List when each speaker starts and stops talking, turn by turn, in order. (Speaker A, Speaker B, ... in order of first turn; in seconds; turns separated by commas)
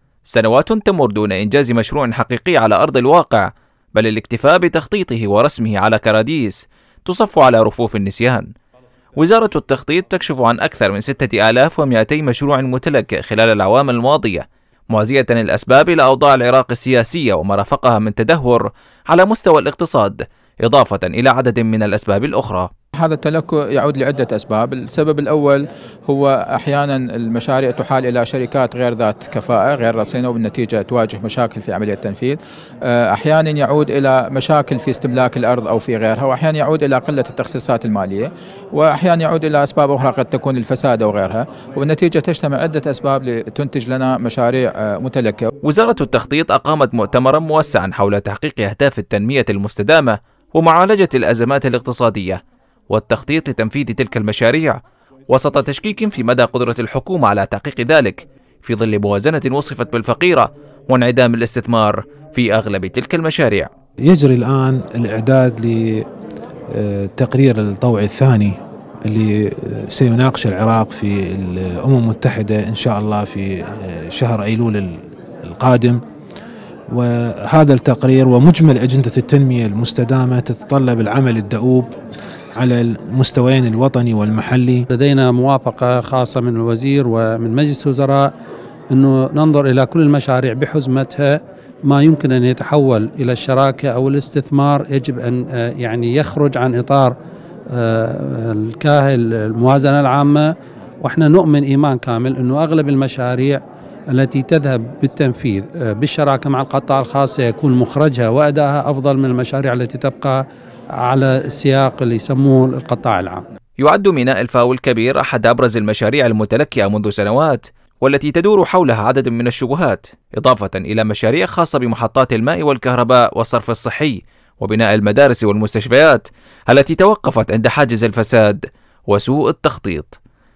Speaker A: 0.3-8.5, Speaker A: 9.2-22.7, Speaker B: 23.0-45.5, Speaker A: 45.6-52.4, Speaker A: 52.9-63.7, Speaker C: 64.0-66.0, Speaker C: 66.7-76.0, Speaker C: 76.9-81.9, Speaker C: 82.5-84.8, Speaker D: 84.9-88.3, Speaker D: 88.9-97.1, Speaker D: 97.7-100.5, Speaker D: 101.0-103.6, Speaker D: 104.1-110.4, Speaker D: 111.0-113.4, Speaker A: 113.8-130.1